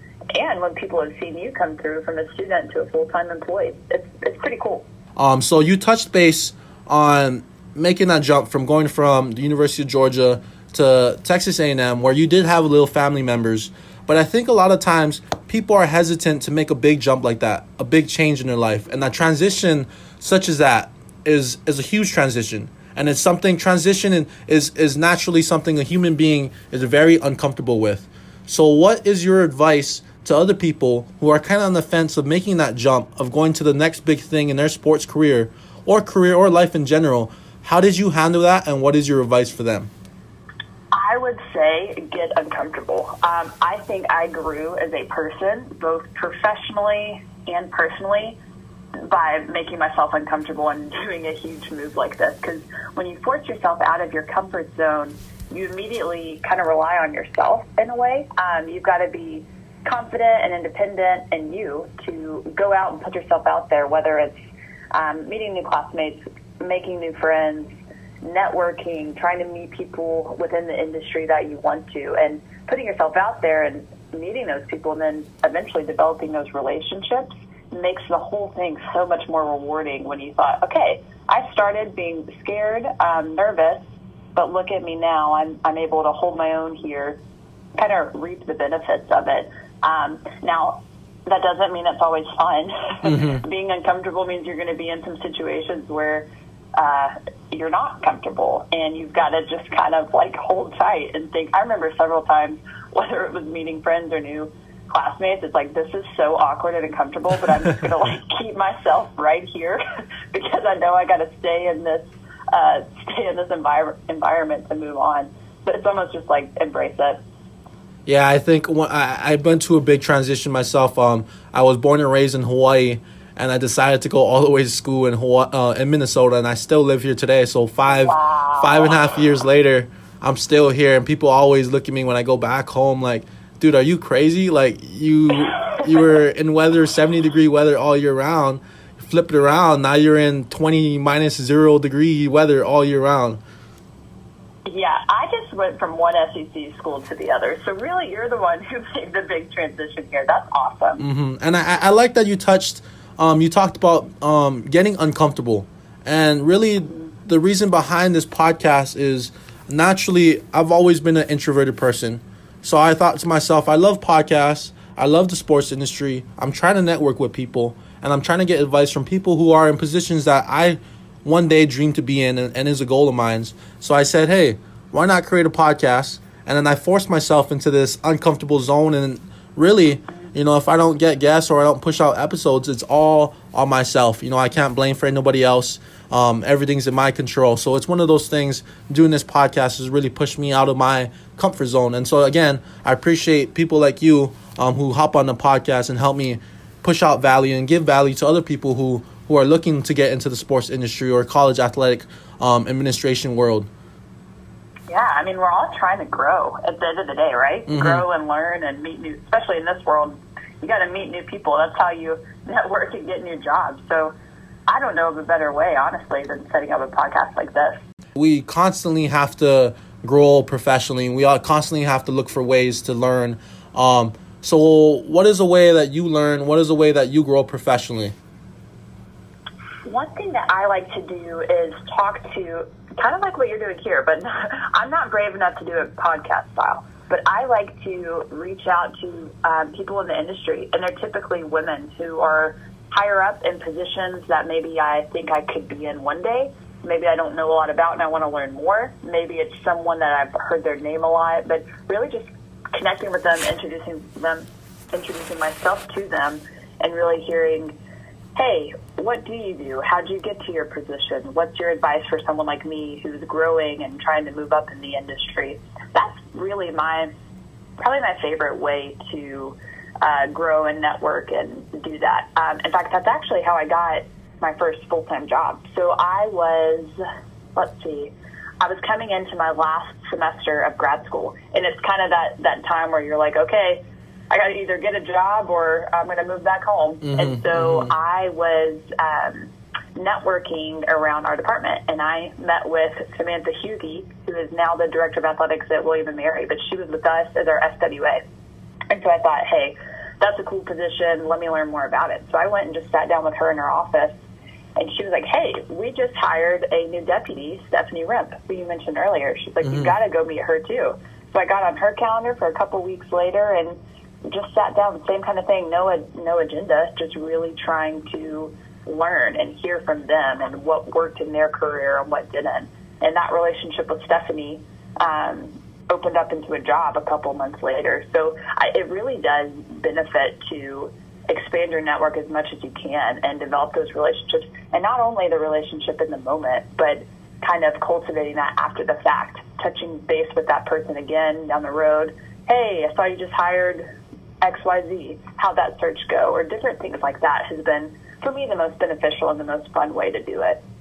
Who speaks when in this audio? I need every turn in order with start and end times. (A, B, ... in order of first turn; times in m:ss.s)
0:00.4-0:04.8 A
0:05.2-0:39.9 B
0:40.9-0:48.4 A
0:49.0-1:04.4 A
1:04.9-1:27.2 A
1:27.8-1:57.2 A
1:33.0-1:33.4 B
1:58.1-2:23.4 B
2:07.9-2:08.9 A
2:24.7-2:31.0 A
2:31.0-3:23.7 B
3:24.9-3:34.1 A
3:27.7-3:28.0 B
3:34.7-3:37.8 A
3:38.2-3:48.1 B
3:49.8-4:17.8 A
4:18.4-4:27.1 A
4:27.8-4:37.0 A
4:37.6-4:58.2 A
4:47.0-4:47.9 B
4:58.9-5:04.2 A
5:04.8-5:43.8 A
5:09.6-5:09.9 B
5:44.4-5:50.6 A